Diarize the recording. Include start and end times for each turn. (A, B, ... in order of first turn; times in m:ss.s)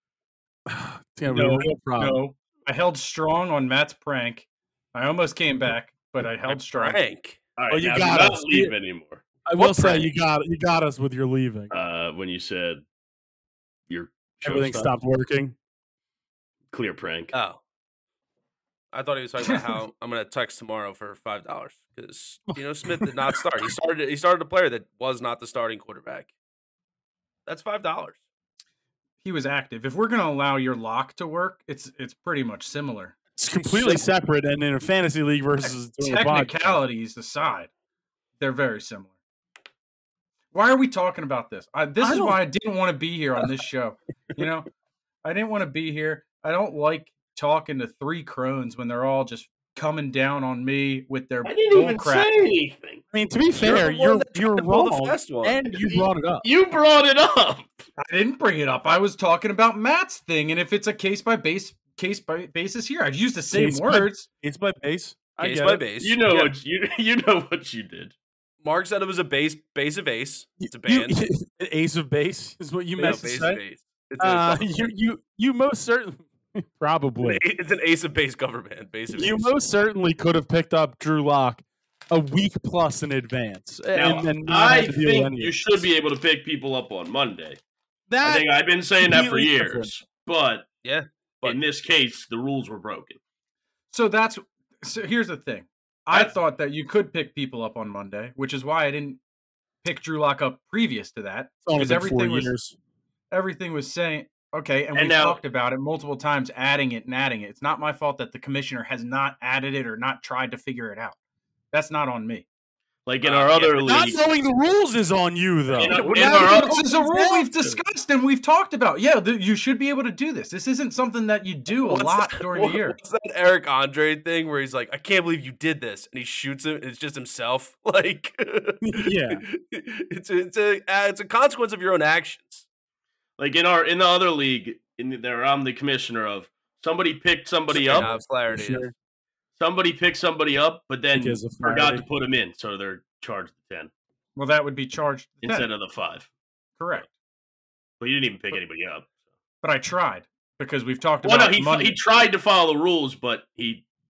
0:00.7-0:02.2 A
0:01.2-0:07.0 B
0:06.4-0:07.4 C
0:07.6-0:09.2 D
0:07.7-0:08.7 A
0:09.4-0:11.7 A
0:09.6-0:10.1 C
0:11.7-0:12.8 D
0:13.9-0:14.9 D
0:14.4-0:15.5 A
0:16.7-0:17.3 D
0:17.3-0:17.6 C
0:18.9-0:26.3 C
0:22.5-0:23.2 A
0:27.4-0:28.2 C
0:29.2-0:33.2 B
0:33.4-0:36.8 A
0:33.7-0:34.0 B
0:36.0-0:37.7 B
0:38.4-0:39.1 B
0:40.5-0:44.7 B
0:42.0-0:42.4 A
0:45.2-0:52.5 B
0:51.4-0:53.0 D
0:53.1-0:56.5 A
0:53.6-0:55.7 C
0:55.9-0:57.8 D
0:58.0-1:04.3 B
1:03.5-1:05.8 A
1:05.4-1:06.5 C
1:06.0-1:08.1 D
1:08.6-1:11.2 C
1:10.6-1:13.6 A
1:13.0-1:14.9 C
1:14.2-1:17.4 A
1:17.2-1:19.5 C
1:19.1-1:25.8 A
1:23.9-1:27.6 D
1:28.1-1:29.9 A
1:28.2-1:30.6 D
1:30.8-1:31.6 C
1:31.4-1:33.2 D
1:33.9-1:39.2 B
1:39.8-1:42.5 B
1:41.6-1:42.7 A
1:43.3-1:51.2 B
1:44.9-1:45.4 D
1:51.7-1:52.4 B
1:53.0-1:54.2 D
1:53.2-1:54.1 C
1:53.8-1:57.5 A
1:55.7-1:56.8 D
1:55.8-2:03.0 B
2:01.8-2:12.6 C
2:08.8-2:09.4 A
2:13.4-2:18.1 D
2:17.7-2:18.9 C
2:18.0-2:18.9 A
2:19.6-2:23.9 D
2:21.1-2:22.0 A
2:24.4-2:25.7 B
2:25.4-2:26.3 D
2:26.8-2:27.1 B
2:28.0-2:29.1 D
2:29.6-2:32.0 B
2:31.2-2:33.8 D